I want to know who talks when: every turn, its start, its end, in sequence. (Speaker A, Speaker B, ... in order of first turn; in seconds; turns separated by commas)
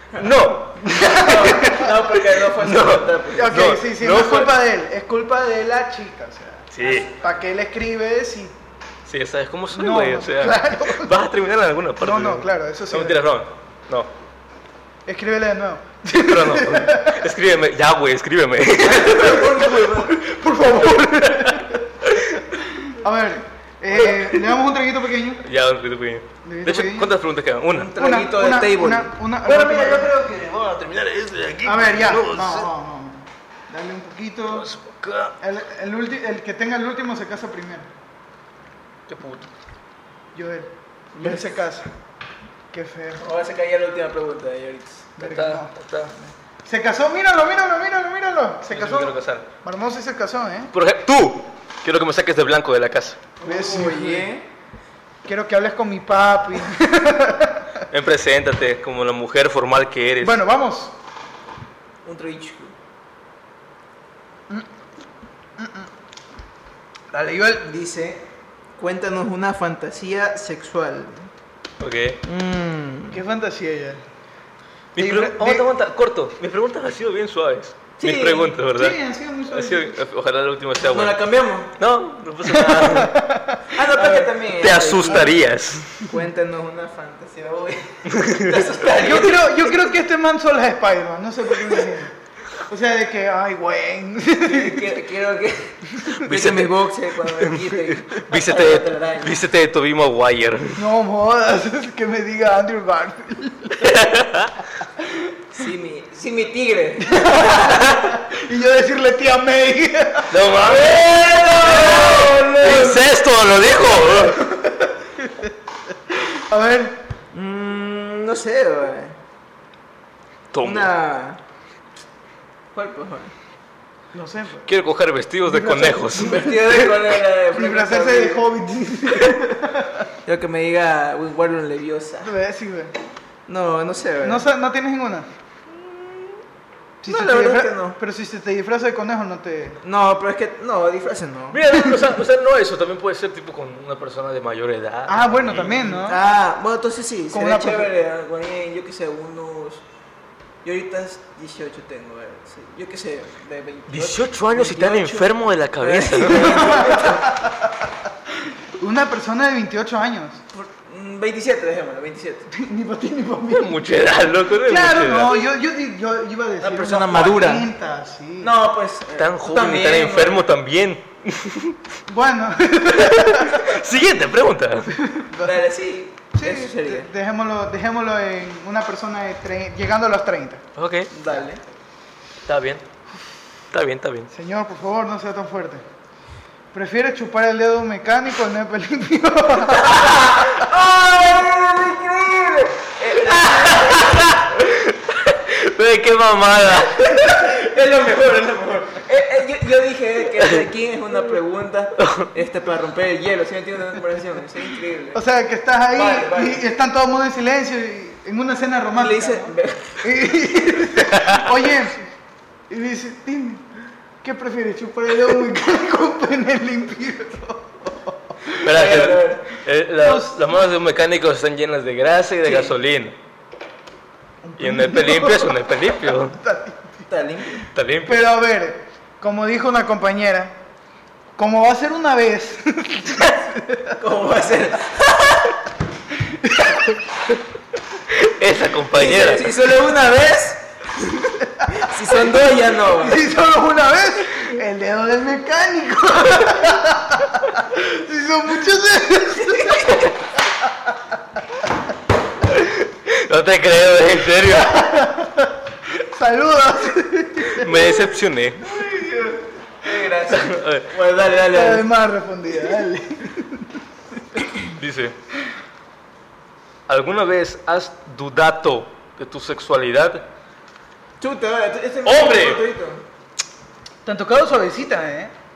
Speaker A: 0.2-4.6, Speaker B: 0.8-1.9, Speaker C: 1.0-3.6, Speaker B: 3.3-8.5, Speaker A: 6.7-7.1, Speaker A: 9.1-14.1, Speaker B: 9.7-11.1, Speaker B: 12.0-13.2, Speaker B: 15.1-17.2, Speaker A: 16.1-19.6, Speaker C: 18.8-20.2, Speaker B: 19.1-25.4, Speaker A: 20.8-22.4, Speaker A: 24.1-24.4, Speaker A: 25.4-27.9, Speaker B: 26.4-27.1, Speaker C: 27.7-29.1, Speaker B: 27.9-30.1, Speaker A: 29.4-32.7, Speaker B: 31.6-34.7, Speaker A: 34.5-35.4, Speaker B: 35.4-37.9, Speaker A: 39.1-39.5, Speaker B: 40.4-41.9, Speaker C: 41.2-41.4, Speaker B: 42.7-43.2, Speaker C: 43.2-45.1, Speaker B: 45.2-45.7, Speaker A: 45.2-46.1, Speaker B: 46.6-50.7, Speaker A: 48.7-49.5, Speaker A: 50.7-53.2, Speaker C: 53.4-54.4, Speaker B: 53.4-54.3, Speaker B: 55.2-57.7, Speaker A: 57.9-60.4, Speaker B: 60.2-60.9, Speaker C: 62.0-62.7, Speaker B: 65.6-65.9, Speaker B: 67.1-67.7, Speaker C: 67.6-68.2, Speaker C: 68.8-71.3, Speaker A: 71.8-72.2, Speaker C: 72.2-73.2, Speaker B: 73.1-74.0, Speaker A: 75.0-79.0, Speaker B: 75.0-75.7, Speaker C: 78.0-78.6, Speaker B: 78.7-80.0, Speaker A: 79.5-81.2, Speaker C: 80.8-81.7, Speaker A: 81.8-83.2, Speaker B: 82.5-84.3, Speaker C: 83.7-85.4, Speaker A: 84.5-86.0, Speaker C: 85.9-89.7, Speaker A: 88.1-88.7, Speaker B: 88.9-92.1, Speaker B: 92.7-95.0, Speaker C: 94.4-99.4, Speaker A: 96.1-100.8, Speaker B: 100.8-104.1, Speaker A: 103.8-104.6, Speaker B: 105.0-105.3, Speaker C: 105.5-108.0, Speaker B: 107.0-110.4, Speaker A: 110.3-114.5, Speaker C: 110.6-113.1, Speaker B: 114.3-115.5, Speaker B: 116.1-117.0, Speaker C: 117.3-119.1, Speaker A: 120.5-120.9, Speaker C: 120.6-121.4, Speaker C: 122.7-123.3, Speaker B: 124.1-124.7, Speaker A: 124.7-126.9, Speaker B: 125.5-126.9, Speaker C: 126.2-128.5, Speaker B: 127.5-130.1, Speaker C: 129.1-129.5, Speaker C: 130.2-132.3, Speaker B: 132.2-132.9, Speaker C: 133.5-134.4, Speaker B: 134.2-135.3, Speaker C: 135.7-136.4, Speaker B: 137.0-139.8, Speaker C: 137.1-138.0, Speaker C: 139.8-141.7, Speaker A: 141.5-145.9, Speaker B: 145.1-146.2, Speaker C: 145.7-149.8, Speaker B: 147.3-147.9, Speaker C: 150.6-157.3, Speaker A: 153.9-157.2, Speaker B: 156.3-157.7, Speaker B: 158.8-160.4, Speaker C: 160.5-162.5, Speaker B: 162.5-163.8, Speaker A: 163.5-165.4, Speaker B: 164.6-168.5, Speaker C: 166.6-167.7, Speaker C: 168.4-170.5, Speaker A: 169.2-171.8, Speaker B: 172.1-173.8, Speaker A: 172.9-175.0, Speaker B: 174.9-175.6, Speaker C: 175.4-177.1, Speaker B: 176.3-180.6, Speaker A: 180.8-181.1, Speaker C: 181.1-181.6, Speaker A: 182.4-182.8, Speaker A: 183.7-184.3, Speaker B: 184.3-185.8, Speaker B: 186.7-190.3, Speaker C: 189.8-194.5, Speaker A: 193.2-197.6, Speaker C: 196.7-205.2, Speaker A: 202.0-202.3, Speaker B: 205.1-212.0, Speaker C: 205.9-206.6, Speaker C: 208.9-210.1, Speaker A: 211.1-211.7, Speaker B: 212.7-213.6, Speaker B: 214.2-218.7, Speaker A: 218.6-223.2, Speaker C: 218.6-219.5, Speaker B: 220.0-220.5, Speaker C: 222.4-222.7, Speaker B: 224.4-225.5, Speaker A: 224.6-226.4, Speaker B: 226.3-227.0, Speaker C: 227.1-227.7, Speaker A: 227.7-228.3, Speaker B: 228.1-230.6, Speaker B: 231.4-234.0, Speaker C: 234.0-235.5, Speaker B: 236.2-237.0, Speaker A: 238.1-239.5, Speaker C: 238.9-243.2, Speaker B: 241.6-241.9, Speaker B: 242.9-250.1, Speaker A: 252.4-255.1, Speaker B: 254.5-258.1, Speaker A: 257.5-258.8, Speaker C: 258.6-261.9, Speaker A: 260.3-260.9, Speaker B: 261.3-263.8, Speaker A: 264.6-265.2, Speaker A: 266.9-270.3, Speaker C: 271.2-273.0, Speaker A: 272.1-272.6, Speaker B: 274.1-275.3